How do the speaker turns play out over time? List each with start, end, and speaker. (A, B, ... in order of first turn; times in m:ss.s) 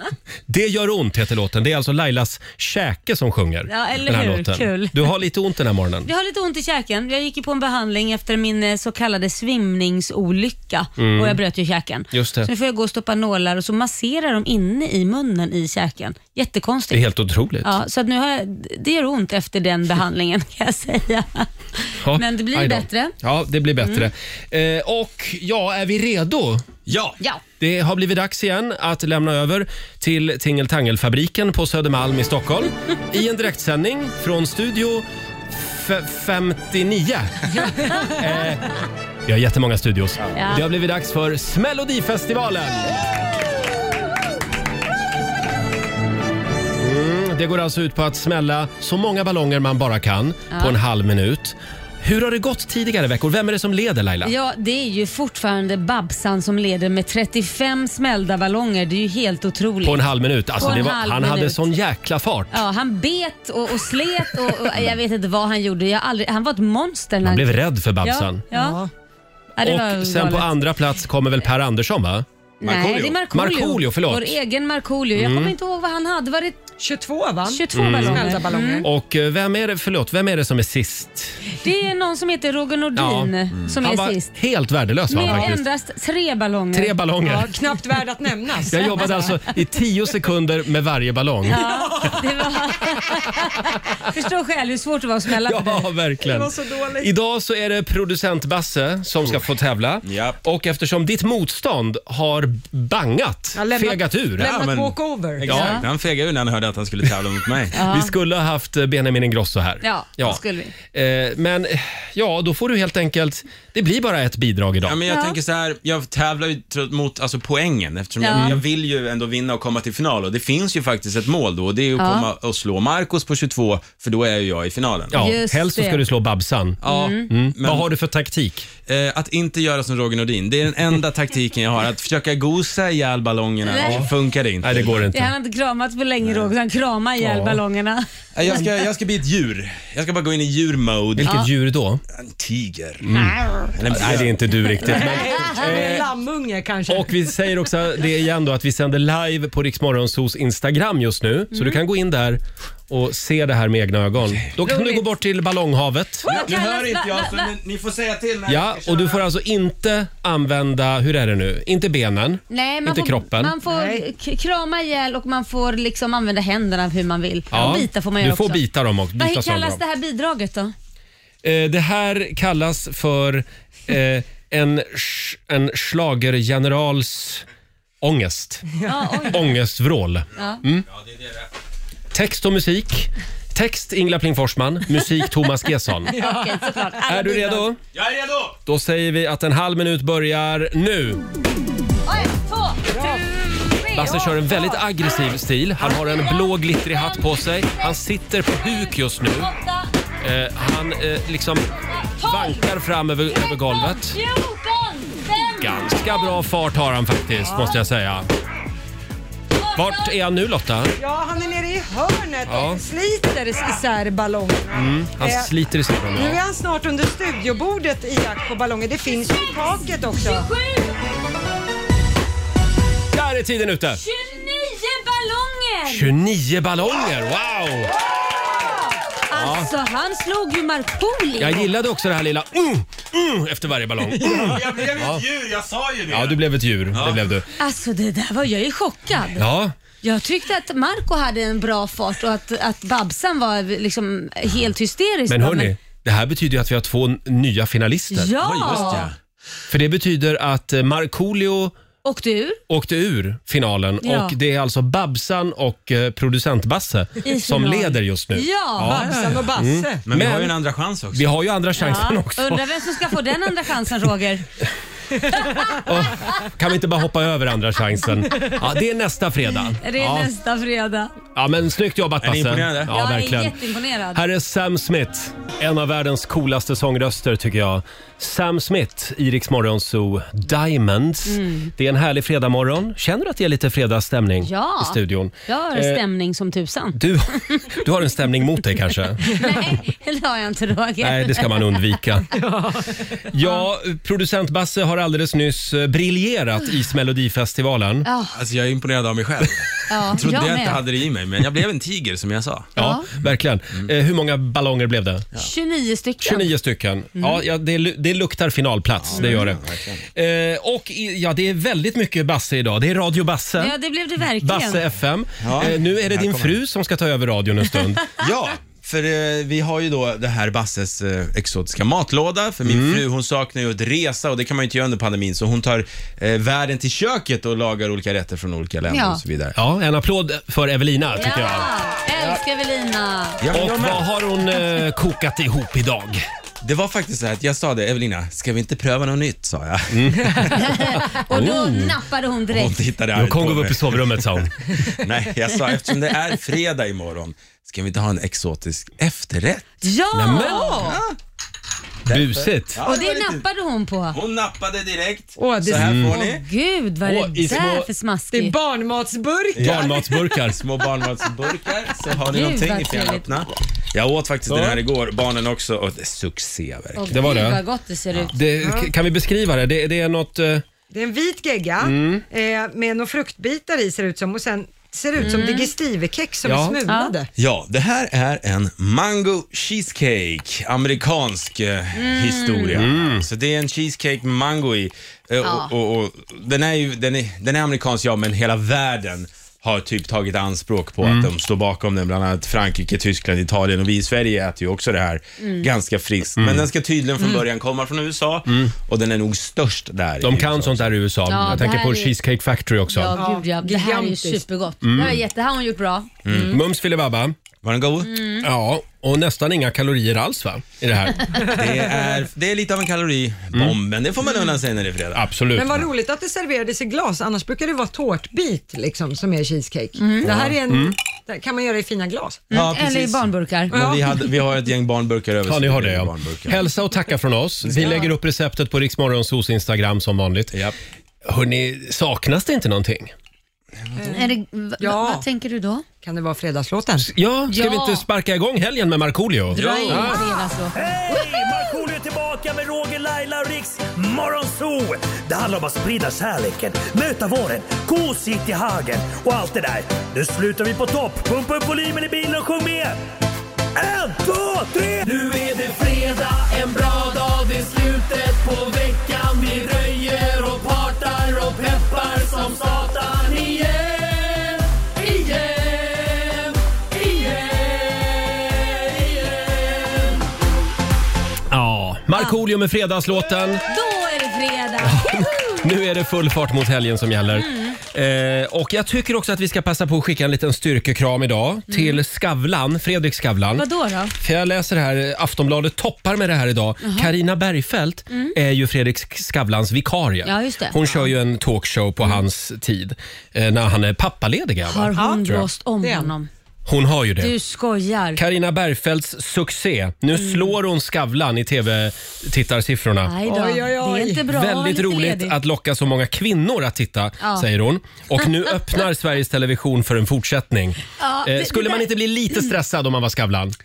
0:00.5-0:06.1 A
0:03.7-0:05.1 B
0:06.1-0:17.0 B
0:11.0-0:11.4 A
0:12.1-0:12.5 A
0:16.9-0:17.7 A
0:17.6-0:23.1 B
0:22.0-0:26.7 A
0:23.8-0:24.1 B
0:26.9-0:27.2 C
0:27.6-0:37.5 A
0:37.6-0:38.1 D
0:38.1-0:38.7 A
0:39.3-0:43.0 A
0:40.3-0:40.6 B
0:46.8-0:54.3 A
0:50.5-0:50.8 B
0:54.2-1:00.0 B
0:59.8-1:02.6 A
1:00.6-1:01.6 B
1:02.5-1:08.8 B
1:07.2-1:08.4 A
1:08.5-1:08.9 D
1:09.6-1:10.5 B
1:09.6-1:12.2 A
1:12.6-1:16.7 B
1:12.6-1:13.1 C
1:13.2-1:14.4 A
1:15.2-1:15.5 A
1:16.8-1:18.9 D
1:17.5-1:18.9 B
1:17.7-1:18.3 A
1:18.8-1:21.4 A
1:21.6-1:24.3 B
1:23.0-1:25.6 A
1:25.1-1:26.9 B
1:26.7-1:27.6 A
1:27.2-1:29.3 D
1:28.7-1:31.7 A
1:31.5-1:35.9 B
1:31.6-1:32.3 D
1:35.4-1:44.6 A
1:36.2-1:37.1 D
1:40.0-1:40.4 C
1:43.6-1:45.5 D
1:44.4-1:47.8 C
1:45.4-1:45.8 A
1:45.5-1:45.9 B
1:47.7-1:48.1 B
1:47.7-1:55.0 A
1:49.8-1:50.7 B
1:54.8-2:05.2 C
1:55.1-1:55.4 B
1:58.2-1:58.6 B
1:58.3-1:58.6 A
2:02.0-2:02.3 B
2:05.1-2:08.7 A
2:05.1-2:06.0 B
2:06.8-2:07.9 C
2:06.8-2:07.3 B
2:08.8-2:15.1 C
2:13.7-2:14.0 B
2:13.8-2:14.1 A
2:14.6-2:15.3 A
2:15.1-2:18.1 B
2:16.2-2:16.5 C
2:17.2-2:17.6 A
2:18.4-2:21.3 C
2:21.2-2:22.0 A
2:22.1-2:24.4 C
2:23.0-2:26.1 A
2:24.8-2:27.2 D
2:26.9-2:36.3 A
2:31.5-2:31.8 B
2:34.7-2:35.0 B
2:36.2-2:37.5 B
2:36.2-2:39.2 C
2:38.5-2:43.6 A
2:42.5-2:48.6 B
2:43.7-2:44.0 D
2:47.5-2:49.8 A
2:49.2-2:50.7 B
2:51.4-2:57.4 A
2:58.0-2:58.6 A
2:58.8-2:59.4 D
2:58.9-2:59.5 B
2:59.3-3:00.8 A
3:00.9-3:01.5 C
3:02.1-3:06.1 A
3:06.1-3:07.0 D
3:06.1-3:07.7 B
3:07.0-3:07.8 A
3:07.9-3:08.6 C
3:08.7-3:11.2 A
3:12.1-3:15.2 B
3:12.9-3:13.2 D
3:13.9-3:19.5 A
3:15.8-3:18.0 B
3:18.5-3:19.8 B
3:20.2-3:21.7 A
3:21.9-3:22.7 B
3:22.2-3:24.2 A
3:23.3-3:26.3 B
3:25.6-3:28.3 A
3:27.4-3:27.8 D
3:29.6-3:30.1 B
3:29.8-3:31.0 A
3:31.0-3:35.5 D
3:32.5-3:32.8 A
3:34.7-3:36.4 A
3:36.1-3:40.5 D
3:40.2-3:40.9 B
3:43.1-3:44.0 A
3:44.0-3:46.1 B
3:45.9-3:47.9 A
3:49.3-3:51.7 B
3:49.3-3:49.7 A
3:51.4-3:55.2 A
3:54.2-3:56.4 C
3:56.1-3:57.5 A
3:56.9-3:57.3 C
3:57.6-3:59.4 B
3:59.4-3:59.7 A
4:00.0-4:05.7 B
4:05.3-4:09.0 A
4:08.1-4:09.1 B
4:08.4-4:09.1 C
4:09.7-4:11.7 A
4:12.0-4:12.6 B
4:12.7-4:20.6 A
4:14.0-4:14.4 B
4:17.2-4:19.0 B
4:18.8-4:20.0 D
4:20.1-4:21.3 C
4:21.1-4:22.7 A
4:21.8-4:24.4 B
4:25.3-4:25.7 B
4:25.8-4:30.3 A
4:29.8-4:31.1 B
4:31.4-4:33.6 A
4:32.2-4:32.9 C
4:32.9-4:34.2 B
4:34.1-4:46.0 A
4:41.3-4:41.7 B
4:44.4-4:47.7 B
4:47.0-4:49.2 A
4:49.3-4:51.8 B
4:51.0-4:52.3 A
4:52.3-4:52.9 D
4:53.3-4:58.1 A
4:58.0-4:58.3 B
4:58.3-5:02.7 C
4:59.9-5:00.8 B
5:02.8-5:03.1 B
5:02.8-5:05.3 A
5:05.4-5:06.5 B
5:06.2-5:09.6 A
5:07.2-5:07.4 B
5:09.0-5:10.0 C
5:09.1-5:09.5 B
5:10.1-5:13.7 A
5:13.6-5:14.8 B
5:14.4-5:18.0 A
5:15.4-5:16.6 C
5:18.2-5:29.6 C
5:22.6-5:23.0 A
5:28.9-5:29.2 B
5:29.6-5:31.7 A
5:31.2-5:33.4 B
5:33.4-5:34.1 C
5:33.5-5:36.2 A
5:36.6-5:40.5 C
5:39.9-5:42.0 A
5:40.5-5:42.8 B
5:42.5-5:44.3 C
5:43.1-5:44.5 A
5:45.0-5:49.8 C
5:49.8-5:50.8 B
5:50.1-5:50.9 A
5:50.5-5:50.9 D
5:50.8-5:51.1 C
5:52.1-5:53.4 C
5:52.1-5:52.8 A
5:52.8-5:54.2 B
5:54.1-5:56.4 C
5:55.4-5:56.0 D
5:55.7-5:56.1 A
5:56.1-5:58.6 B
5:57.0-5:57.9 A
5:58.3-6:00.1 D
5:59.6-6:07.1 C
5:59.6-6:00.6 A
6:02.3-6:03.3 B
6:04.5-6:04.8 A
6:07.0-6:08.3 B
6:07.1-6:07.6 A
6:08.3-6:10.6 A
6:08.6-6:08.9 D
6:10.9-6:17.3 D
6:11.8-6:12.2 A
6:15.2-6:15.7 B
6:16.4-6:16.8 A
6:16.9-6:17.1 B
6:17.4-6:41.0 C
6:22.0-6:22.8 B
6:22.8-6:23.3 A
6:25.4-6:25.7 B
6:31.0-6:31.3 A
6:35.4-6:35.7 B
6:36.4-6:36.7 A
6:38.5-6:38.7 A
6:40.2-6:43.1 A
6:41.3-6:42.1 B
6:42.9-6:46.1 B
6:43.1-6:44.4 D
6:44.8-6:45.2 A
6:46.2-6:46.6 C
6:46.3-6:47.4 A
6:47.6-6:48.2 C
6:48.0-6:48.4 B
6:48.4-6:51.3 A
6:51.4-6:52.1 D
6:51.5-6:55.2 C
6:55.1-6:55.9 A
6:55.5-7:02.4 D
7:00.0-7:00.3 B
7:00.2-7:01.0 A
7:02.5-7:03.7 B
7:02.5-7:06.6 C
7:03.7-7:04.1 D
7:05.4-7:10.6 A
7:07.6-7:08.0 C
7:07.8-7:08.1 B
7:11.2-7:13.1 A
7:13.8-7:14.2 C
7:14.0-7:14.2 D
7:14.1-7:15.8 B
7:14.8-7:15.2 D
7:16.0-7:17.1 D
7:17.0-7:20.2 A
7:17.5-7:18.0 B
7:19.5-7:20.7 B
7:19.6-7:20.1 C
7:20.7-7:33.0 E
7:33.8-7:35.0 E
7:35.0-7:50.2 A
7:51.5-7:53.6 A
7:53.7-7:55.6 B
7:54.8-8:03.7 A
7:57.3-7:57.8 B
8:01.7-8:02.0 B
8:03.6-8:04.1 B
8:04.2-8:15.4 A
8:06.8-8:07.1 B
8:08.1-8:08.4 B
8:10.2-8:11.0 B
8:14.7-8:16.3 B
8:15.0-8:16.1 D
8:16.7-8:17.3 A
8:17.2-8:18.2 B
8:18.2-8:23.1 A
8:20.2-8:20.5 B
8:23.0-8:25.4 B
8:23.2-8:24.2 D
8:24.3-8:33.6 A
8:27.2-8:27.5 B
8:31.0-8:32.5 B